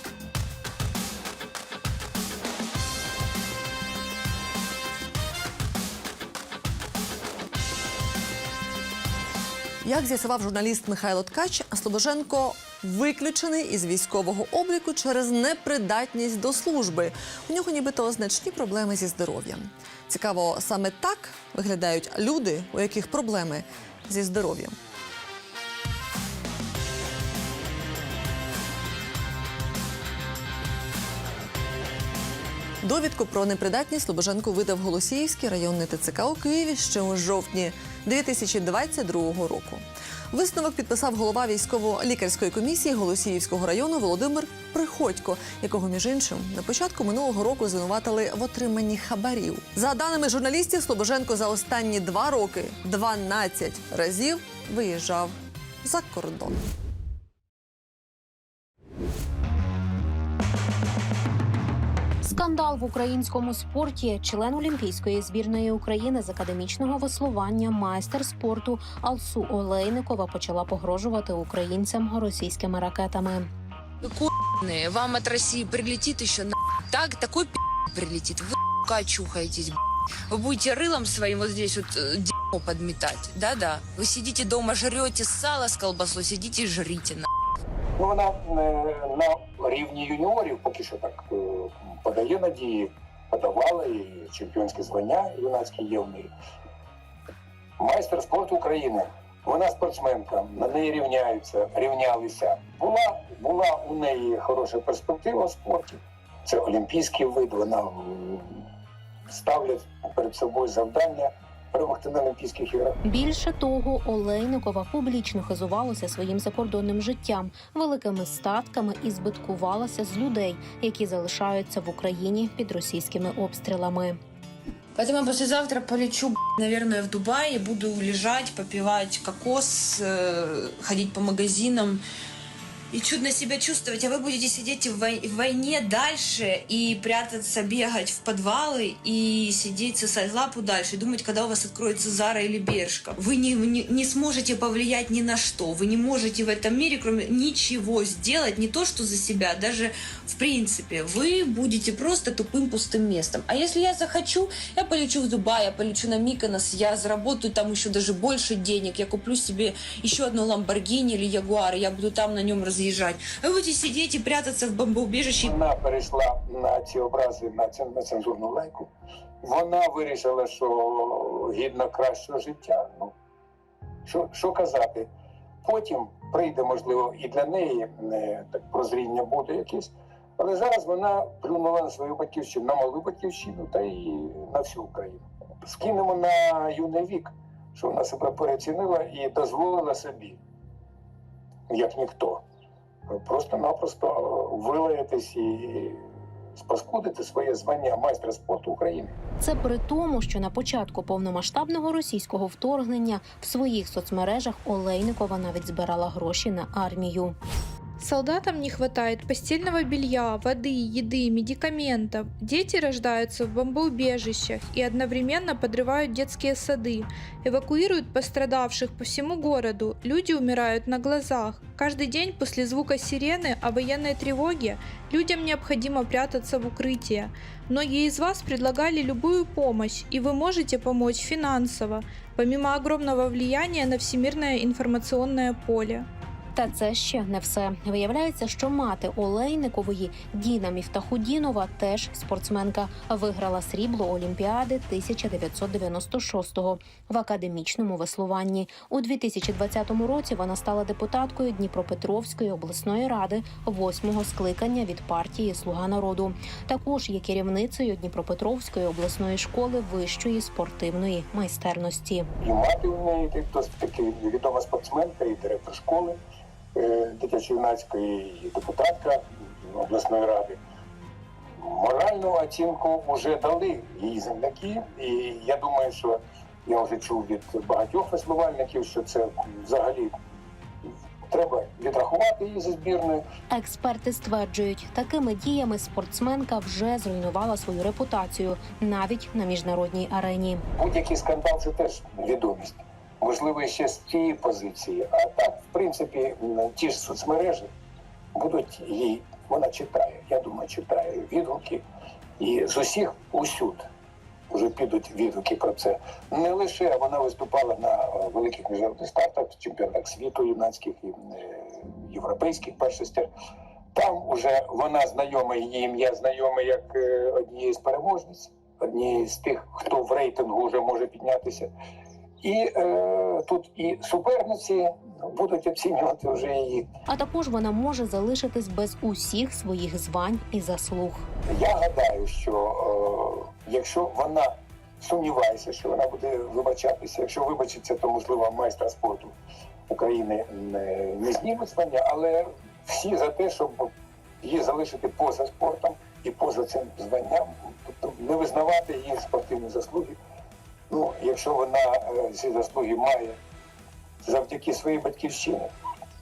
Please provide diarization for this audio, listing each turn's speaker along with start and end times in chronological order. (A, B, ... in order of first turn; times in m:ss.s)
0:09.8-0:24.7 A
0:32.8-0:56.7 A
1:02.2-1:13.5 B
1:14.0-1:19.8 C
1:20.3-1:27.2 C
1:28.0-1:36.3 D
1:37.8-1:48.6 D
1:49.3-1:53.0 D
1:53.0-2:04.2 B
2:05.0-2:12.0 C
2:12.9-2:45.5 C
2:45.4-2:48.9 D
2:49.4-2:53.1 D
2:54.0-2:55.1 D
2:55.6-3:10.4 D
3:11.7-3:12.4 D
3:13.1-3:16.0 D
3:16.5-3:19.1 D
3:19.4-3:27.3 B
3:28.0-3:56.0 E
3:56.6-4:22.3 B
4:22.4-4:26.2 D
4:26.7-4:30.6 D
4:31.6-4:40.1 D
4:41.3-4:43.2 D
4:43.5-4:50.6 B
4:50.8-4:57.7 D
4:58.3-5:01.8 D
5:02.4-5:03.8 D
5:04.5-5:13.3 D
5:13.9-5:21.7 D
5:22.4-5:26.8 D
5:27.1-5:31.2 B
5:31.5-5:39.3 D
5:39.9-5:43.9 D
5:44.4-5:50.2 D
5:50.9-5:53.4 D
5:54.2-5:55.7 D